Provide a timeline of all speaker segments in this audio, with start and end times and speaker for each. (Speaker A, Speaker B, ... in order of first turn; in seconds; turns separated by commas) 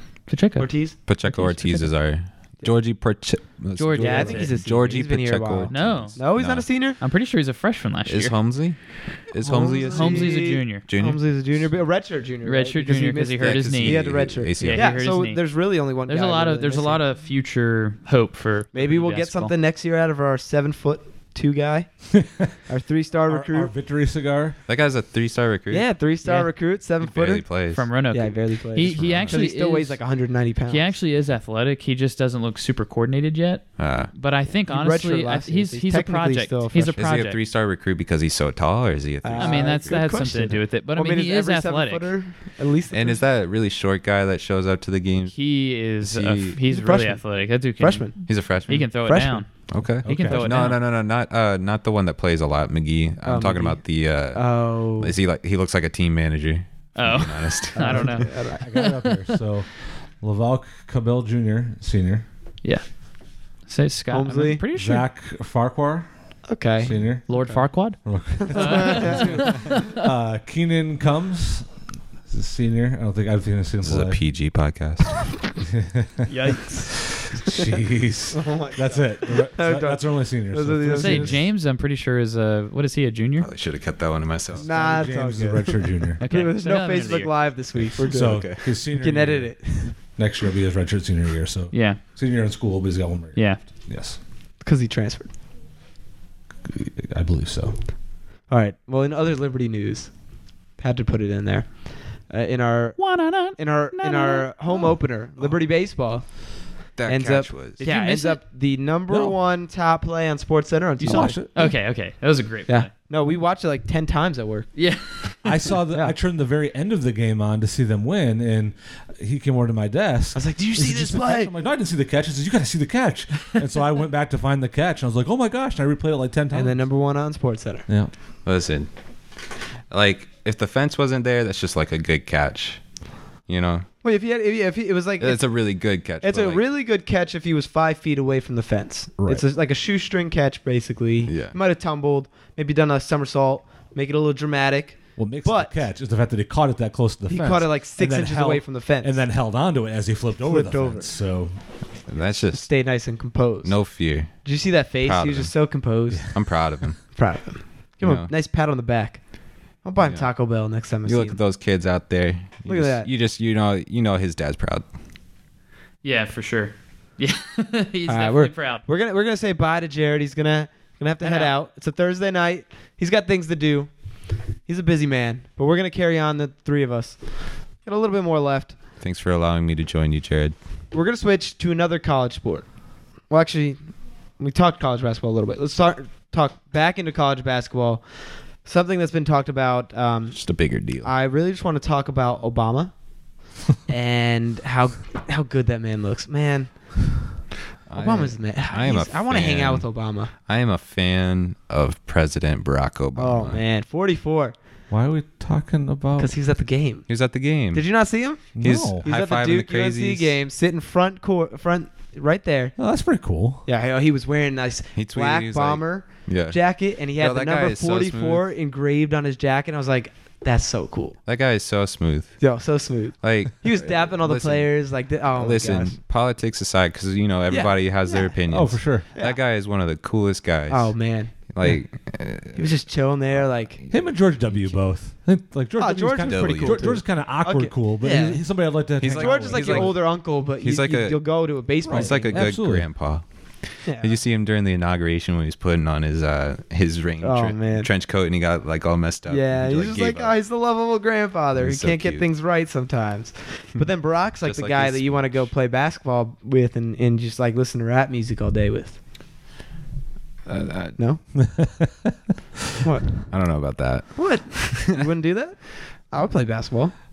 Speaker A: 0.3-1.9, Speaker B: 0.6-0.9, Speaker C: 1.1-6.7, Speaker A: 3.8-4.5, Speaker B: 3.9-7.0, Speaker A: 5.7-6.2, Speaker A: 7.0-8.3, Speaker C: 8.1-11.7, Speaker B: 9.4-17.0, Speaker A: 9.9-10.8, Speaker A: 12.4-19.5, Speaker C: 13.4-15.0, Speaker B: 18.7-22.1, Speaker D: 22.1-22.5, Speaker B: 22.6-23.7, Speaker D: 23.2-24.6, Speaker C: 24.7-25.9, Speaker B: 25.7-27.5, Speaker A: 26.2-26.5, Speaker C: 27.0-27.9, Speaker A: 27.7-30.0, Speaker B: 28.1-30.9, Speaker C: 28.8-29.4, Speaker A: 30.7-37.4, Speaker C: 33.8-34.1, Speaker B: 34.7-37.0, Speaker C: 36.9-40.0, Speaker B: 39.2-43.2, Speaker A: 39.4-42.1, Speaker C: 42.9-45.4, Speaker A: 45.3-50.8, Speaker C: 46.0-46.6, Speaker B: 46.7-48.1, Speaker C: 48.2-48.9, Speaker B: 49.0-49.4, Speaker C: 49.7-58.2, Speaker D: 50.0-50.4, Speaker B: 53.2-55.1, Speaker A: 57.0-59.1, Speaker B: 57.7-58.6, Speaker D: 58.2-62.2, Speaker A: 62.6-63.0, Speaker A: 63.6-65.0, Speaker B: 64.1-64.6, Speaker D: 64.7-66.1, Speaker B: 66.5-67.5, Speaker D: 66.8-71.7, Speaker A: 67.3-69.7, Speaker B: 68.4-69.6, Speaker D: 72.3-74.2, Speaker C: 73.8-75.3, Speaker D: 75.6-76.3, Speaker B: 76.3-76.9, Speaker D: 77.3-81.4, Speaker B: 78.3-81.4, Speaker A: 80.9-83.5, Speaker C: 83.4-84.7, Speaker D: 84.5-86.2, Speaker B: 84.6-89.9, Speaker A: 86.2-87.3, Speaker C: 88.0-88.6, Speaker D: 88.0-94.2, Speaker A: 91.7-92.0, Speaker B: 94.6-95.3, Speaker D: 96.7-97.8, Speaker B: 98.5-100.1, Speaker B: 100.8-103.0, Speaker A: 103.0-105.0, Speaker B: 103.5-106.2, Speaker C: 107.0-107.8, Speaker B: 107.0-111.4, Speaker A: 107.8-108.4, Speaker D: 109.1-109.4, Speaker A: 111.0-112.9, Speaker D: 111.0-111.7, Speaker B: 112.7-114.7, Speaker A: 114.8-115.7, Speaker D: 115.4-126.8, Speaker B: 120.3-121.5, Speaker B: 126.5-127.8, Speaker C: 128.4-128.9, Speaker C: 129.9-132.8, Speaker C: 133.5-133.9, Speaker B: 134.0-135.4, Speaker C: 135.2-136.6, Speaker B: 136.2-145.8, Speaker C: 141.3-141.5, Speaker D: 145.2-151.5, Speaker B: 147.3-149.2, Speaker B: 150.4-151.1, Speaker C: 152.1-152.7, Speaker B: 152.5-153.8, Speaker C: 153.6-154.5, Speaker B: 154.4-156.4, Speaker C: 155.0-155.8, Speaker C: 156.3-157.1, Speaker B: 157.1-159.3, Speaker C: 158.0-158.3, Speaker B: 159.8-161.4, Speaker C: 160.0-160.3, Speaker C: 161.0-164.8, Speaker B: 162.7-163.1, Speaker A: 166.0-168.8, Speaker B: 168.1-173.9, Speaker A: 171.2-171.5, Speaker B: 174.6-178.7, Speaker C: 179.0-180.5, Speaker B: 180.9-182.7, Speaker B: 183.3-188.0, Speaker B: 188.6-190.4, Speaker C: 190.3-191.1, Speaker B: 191.0-192.9, Speaker B: 193.9-197.0, Speaker C: 197.9-203.6, Speaker B: 197.9-200.3, Speaker B: 203.2-204.6, Speaker D: 204.9-206.3, Speaker B: 206.2-207.1, Speaker C: 207.1-207.9, Speaker B: 207.7-212.7, Speaker C: 208.5-210.4, Speaker D: 208.6-209.0, Speaker D: 212.8-213.6, Speaker B: 213.7-221.2, Speaker C: 214.9-218.4, Speaker C: 221.2-222.4, Speaker B: 222.4-225.9, Speaker C: 223.2-232.7, Speaker B: 227.5-228.3, Speaker D: 228.5-229.1, Speaker B: 230.7-231.3, Speaker B: 232.6-233.8, Speaker C: 233.8-234.1, Speaker D: 233.9-239.9, Speaker B: 235.8-238.4, Speaker C: 236.3-236.9, Speaker C: 239.0-241.2, Speaker B: 239.1-242.4, Speaker C: 241.8-243.2, Speaker D: 241.9-242.9, Speaker B: 243.8-244.2, Speaker C: 244.0-250.3, Speaker B: 247.2-247.9, Speaker B: 249.3-259.0, Speaker C: 251.6-252.2, Speaker C: 254.4-255.5, Speaker C: 260.4-261.0, Speaker D: 261.4-262.1, Speaker B: 262.8-263.3, Speaker C: 263.3-264.9, Speaker B: 264.1-266.9